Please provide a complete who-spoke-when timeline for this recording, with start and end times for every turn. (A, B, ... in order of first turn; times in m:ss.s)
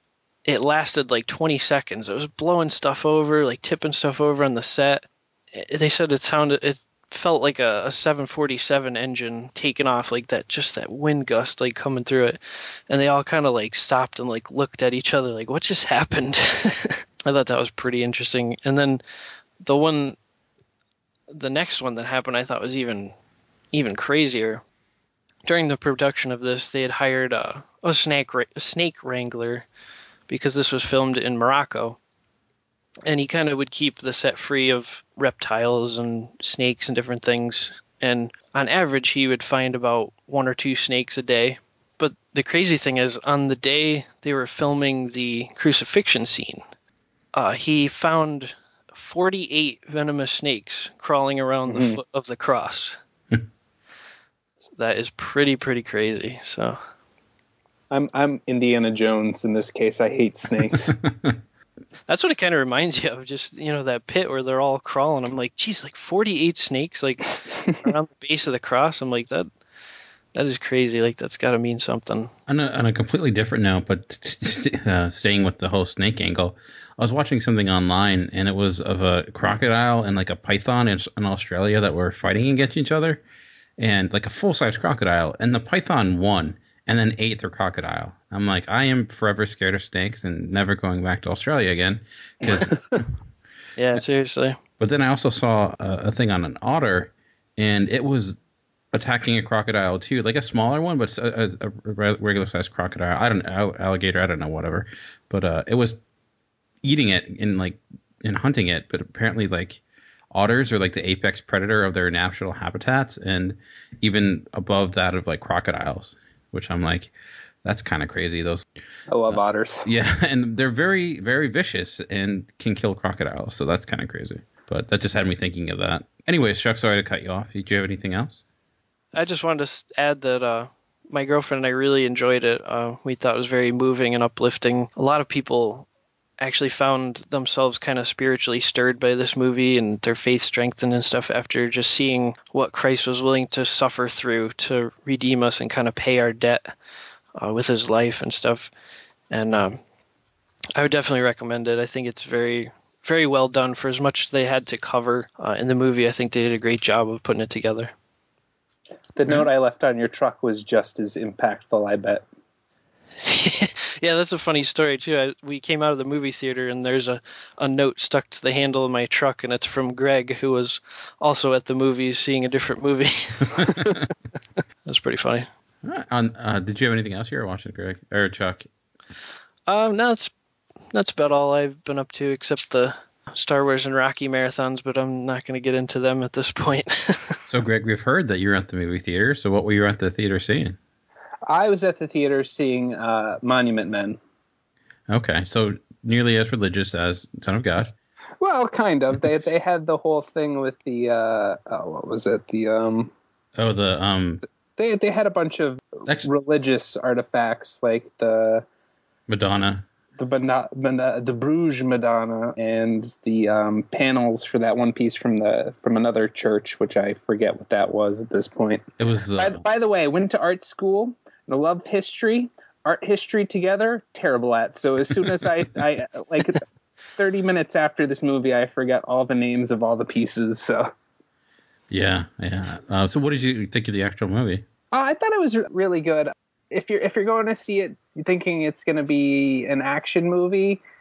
0:00.5-0:19.0 A
0:19.6-0:20.2 A
0:21.3-0:23.1 A
0:23.7-0:24.6 A
0:25.5-0:29.7 A
0:30.3-0:32.0 A
0:33.1-0:46.6 A
0:47.3-0:53.0 A
0:51.7-0:52.0 B
0:54.8-0:56.8 A
0:57.9-1:01.0 B
1:00.9-1:01.4 C
1:02.1-1:09.5 A
1:10.3-1:12.3 A
1:12.5-1:23.2 C
1:23.8-1:33.1 C
1:33.8-1:34.6 A
1:34.8-1:38.4 C
1:38.9-1:46.0 C
1:46.8-1:49.8 C
1:50.3-1:57.1 C
1:57.6-1:58.6 C
1:59.1-1:59.9 B
1:59.3-2:08.4 C
2:09.1-2:15.9 A
2:16.4-2:26.7 A
2:27.4-2:28.7 A
2:29.3-2:29.8 A
2:30.8-2:37.9 A
2:39.2-2:42.2 B
2:43.2-2:54.0 A
2:53.7-2:53.9 C
2:54.9-2:55.5 A
2:55.8-2:58.7 C
2:59.7-3:00.3 A
3:00.9-3:07.4 A
3:07.5-3:10.8 C
3:11.5-3:14.2 B
3:15.1-3:17.9 C
3:18.4-3:23.1 B
3:23.6-3:24.4 C
3:24.8-3:28.6 B
3:29.3-3:29.8 C
3:30.2-3:38.8 B
3:39.0-3:39.6 C
3:39.4-3:46.6 B
3:47.2-3:50.9 B
3:51.9-3:54.6 C
3:54.9-4:00.8 B